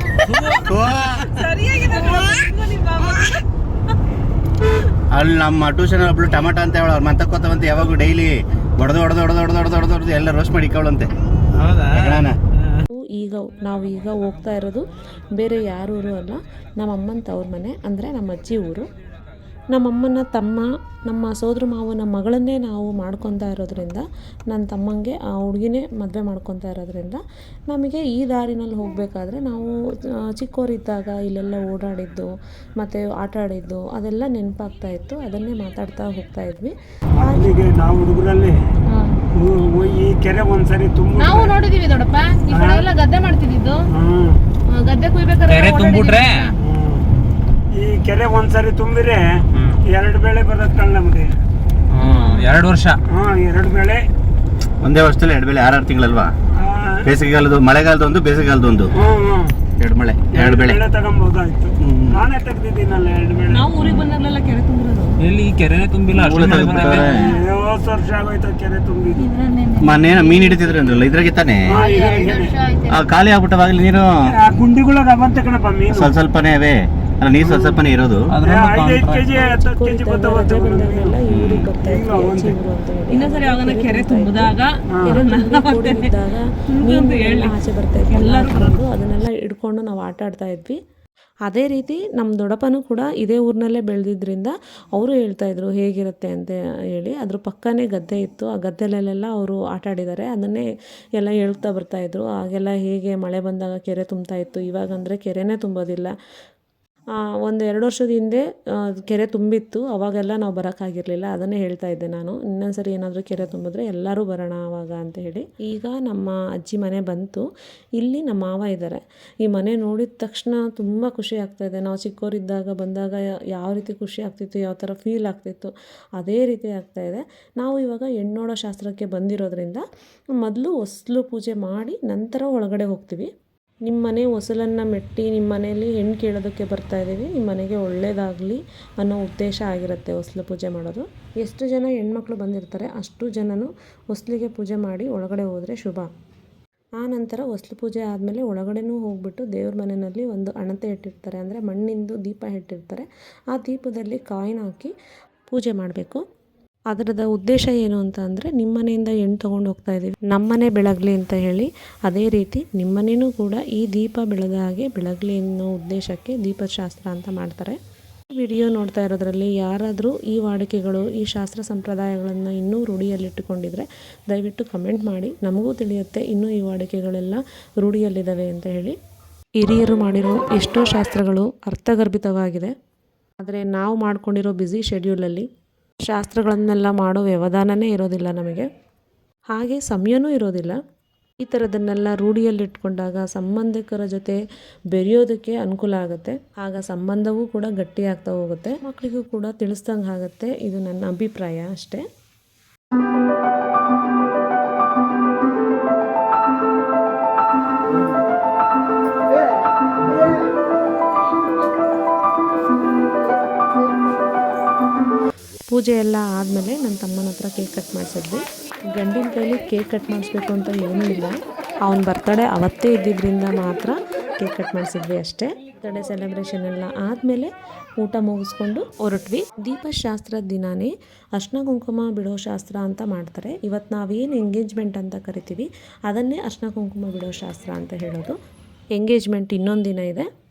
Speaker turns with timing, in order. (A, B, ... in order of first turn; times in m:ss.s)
0:00.3-0:02.3 A
0:00.5-0:01.3 B
0:01.7-0:02.8 C
0:05.1-0:11.1 B
0:11.6-0:12.8 A
0:11.9-0:12.4 B
0:12.9-0:18.9 D
0:19.7-0:37.5 D
0:37.2-0:38.6 E
0:39.3-0:41.6 E
0:41.2-0:43.9 C
0:42.5-0:42.8 E
0:44.0-0:44.4 E
0:44.7-0:46.5 C
0:45.5-0:46.5 A
0:46.6-0:47.0 E
0:47.7-0:49.3 E
0:49.9-0:51.4 E
0:51.9-0:53.0 A
0:52.0-0:52.5 C
0:53.1-0:54.0 E
0:54.8-0:56.3 B
0:56.6-0:57.0 E
0:57.0-0:58.9 B
0:59.0-0:59.6 E
0:59.8-1:00.8 B
1:00.3-1:03.6 E
1:01.8-1:02.2 B
1:03.5-1:05.1 C
1:05.2-1:07.4 A
1:06.1-1:07.3 B
1:07.3-1:09.3 E
1:09.2-1:10.7 C
1:09.8-1:11.9 B
1:11.7-1:12.7 E
1:12.9-1:14.2 B
1:14.4-1:16.1 E
1:15.9-1:18.3 B
1:17.4-1:17.8 E
1:18.3-1:19.3 A
1:18.4-1:21.2 E
1:19.3-1:30.8 D
1:21.3-1:21.6 A
1:21.8-1:22.6 E
1:23.1-1:26.1 C
1:26.8-1:27.6 C
1:28.1-1:28.8 C
1:31.5-1:46.1 D
1:47.3-2:09.8 D
2:10.4-2:13.3 D
2:13.9-2:26.1 D
2:27.0-2:34.9 D
2:35.5-2:36.2 D
2:36.9-2:47.8 D
2:48.3-2:59.0 D
2:59.6-3:02.7 D
3:03.4-3:05.5 D
3:06.0-3:08.7 D
3:09.5-3:10.8 D
3:11.4-3:14.4 D
3:14.9-3:22.1 D
3:35.7-3:58.4 D
3:59.0-4:00.3 D